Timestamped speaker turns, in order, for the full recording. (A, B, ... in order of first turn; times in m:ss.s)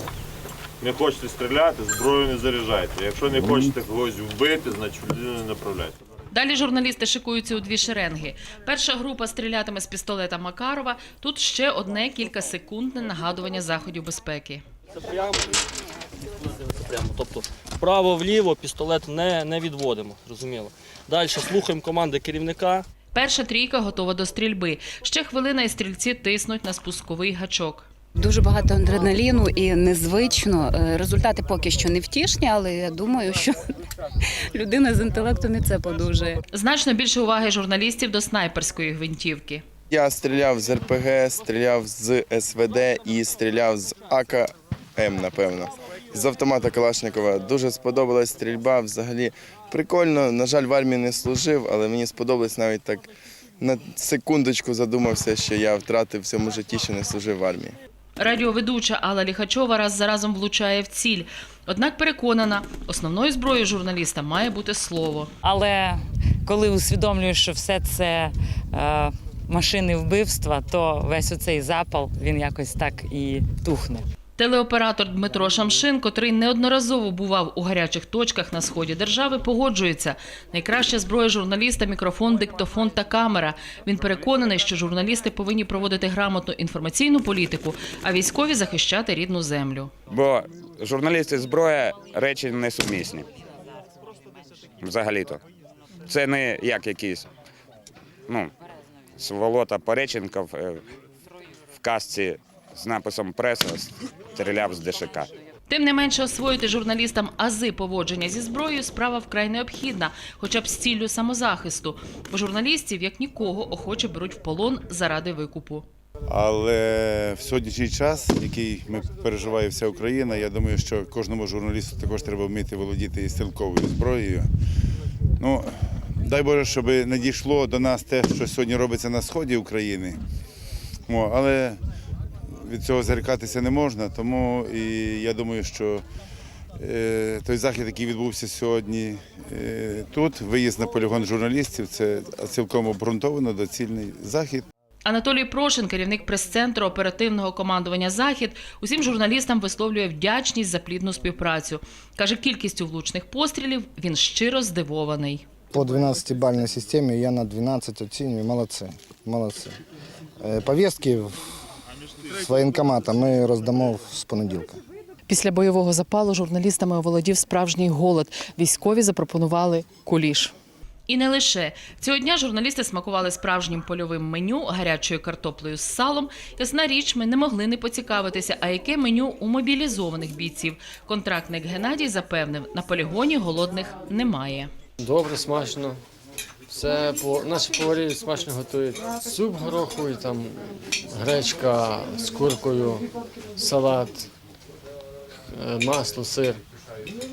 0:00.8-0:05.9 A
0:06.3-0:14.6 B
0:15.0-0:15.6 C
0:16.5-0:22.9 C
0:23.1-0:27.9 B
0:28.2-0:33.8 D
0:34.5-0:36.4 D
0:36.5-0:39.6 B
0:39.9-0:57.8 E
0:58.2-1:05.3 B
1:05.4-1:14.0 F
1:14.4-1:29.9 B
1:30.1-1:33.3 G
1:34.8-1:35.4 G
1:36.1-1:37.3 G
1:39.2-1:40.8 G
1:41.8-1:45.3 G
1:45.7-1:55.8 B
1:56.3-2:04.5 H
2:05.4-2:10.2 H
2:11.1-2:11.8 H
2:12.6-2:16.0 H
2:16.8-2:24.6 H
2:25.0-2:35.4 B
2:35.7-2:39.8 I
2:40.4-2:41.4 I
2:42.3-2:44.8 I
2:45.3-2:50.5 B
2:51.1-3:04.7 B
3:05.0-3:06.0 J
3:06.7-3:14.3 J
3:15.5-3:16.6 J